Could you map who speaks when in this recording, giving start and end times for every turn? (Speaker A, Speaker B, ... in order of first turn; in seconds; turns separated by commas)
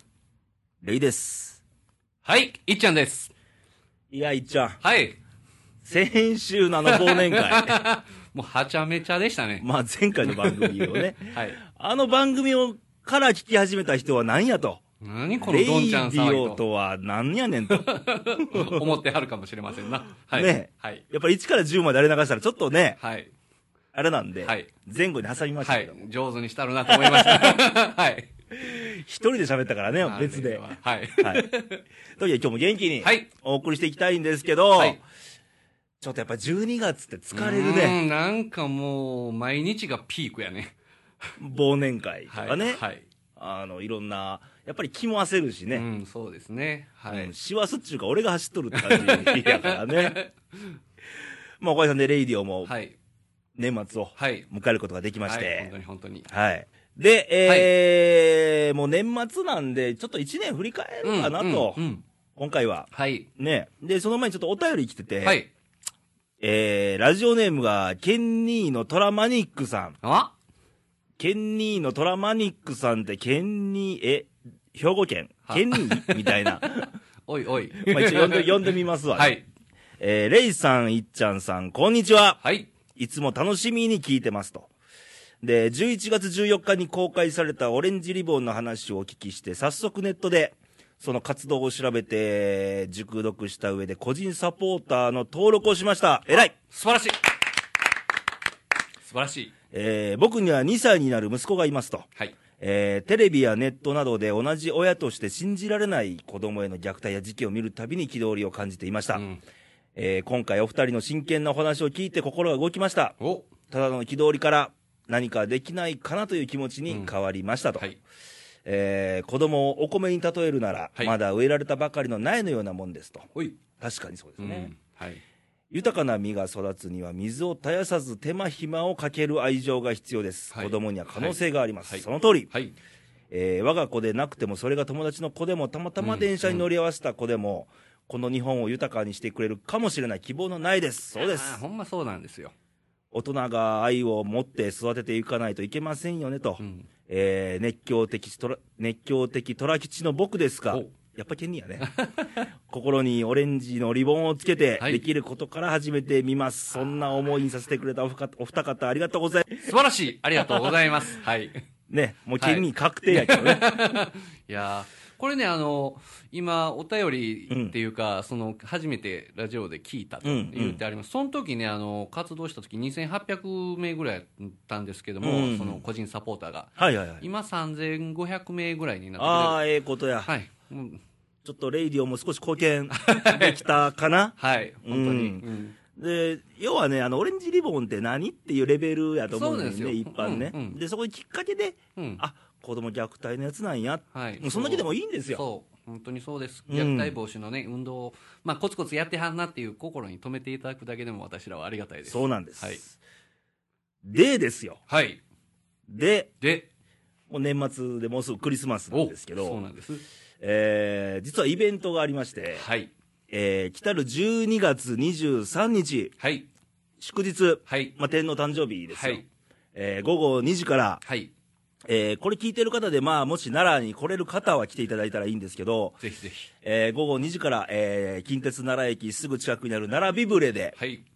Speaker A: 0.8-1.6, Speaker B: 2.2-3.3, Speaker A: 4.1-4.8, Speaker B: 4.8-5.2, Speaker A: 5.8-7.8, Speaker B: 6.8-9.7, Speaker A: 9.6-14.8, Speaker B: 10.2-11.6, Speaker B: 15.0-16.6, Speaker A: 15.4-18.9, Speaker B: 17.7-21.0, Speaker A: 20.3-23.0, Speaker B: 23.0-23.3, Speaker A: 23.9-26.0, Speaker B: 24.4-24.7, Speaker B: 25.6-28.3, Speaker A: 26.9-27.6, Speaker A: 28.5-31.5, Speaker B: 30.0-31.8, Speaker A: 32.1-35.0, Speaker B: 33.0-33.3, Speaker A: 36.0-38.0, Speaker B: 37.3-40.7, Speaker A: 41.4-42.8, Speaker B: 42.3-43.0, Speaker A: 43.4-45.9, Speaker B: 45.7-47.3, Speaker A: 47.1-50.2, Speaker B: 48.7-50.8, Speaker A: 51.6-52.7, Speaker B: 52.6-53.0, Speaker A: 53.5-55.7, Speaker B: 54.2-54.5, Speaker B: 55.2-56.3, Speaker A: 56.3-61.8, Speaker B: 57.4-57.7, Speaker B: 61.0-62.0, Speaker A: 62.4-65.4, Speaker B: 62.9-63.3, Speaker B: 65.2-65.5, Speaker A: 66.4-70.0, Speaker B: 70.0-70.3, Speaker A: 71.2-76.9, Speaker B: 75.5-79.4, Speaker A: 77.8-79.4, Speaker A: 80.0-82.4, Speaker B: 82.4-82.7, Speaker A: 82.9-84.7, Speaker A: 85.4-96.5, Speaker B: 96.5-97.3, Speaker B: 99.0-99.5, Speaker A: 99.7-109.2, Speaker B: 109.1-109.4, Speaker A: 110.0-113.2, Speaker B: 113.2-113.5, Speaker A: 113.7-117.9, Speaker B: 116.9-117.1, Speaker A: 118.6-124.7, Speaker B: 123.3-123.6, Speaker B: 124.4-125.2, Speaker A: 125.7-132.5, Speaker B: 130.5-132.7, Speaker A: 133.3-141.6, Speaker B: 136.0-136.7, Speaker B: 141.2-142.5, Speaker A: 143.1-151.9, Speaker B: 146.6-146.9, Speaker B: 151.8-152.5, Speaker A: 152.7-159.7, Speaker B: 154.8-155.0, Speaker B: 159.6-161.6, Speaker A: 160.4-160.9, Speaker A: 161.9-163.8, Speaker B: 162.4-179.6, Speaker A: 167.5-167.8, Speaker A: 170.2-170.8, Speaker A: 175.2-175.8, Speaker A: 176.8-177.2, Speaker A: 179.2-180.3, Speaker B: 180.2-181.0, Speaker A: 181.4-195.4, Speaker B: 182.9-183.8, Speaker B: 184.4-185.8, Speaker B: 189.3-190.8, Speaker B: 191.9-192.2, Speaker B: 194.1-202.8, Speaker A: 196.7-197.1, Speaker A: 202.1-203.0, Speaker A: 204.0-204.8, Speaker B: 204.9-205.2, Speaker A: 205.9-206.3, Speaker B: 206.4-206.7, Speaker A: 207.3-209.6, Speaker B: 208.9-210.0, Speaker A: 210.4-212.6, Speaker B: 212.5-212.9, Speaker A: 213.3-216.1, Speaker B: 216.2-216.5, Speaker A: 217.0-221.0, Speaker B: 217.7-217.9, Speaker B: 218.9-219.2, Speaker B: 221.0-221.3, Speaker A: 221.9-226.0, Speaker B: 226.0-226.5, Speaker A: 226.6-230.7, Speaker B: 230.8-231.1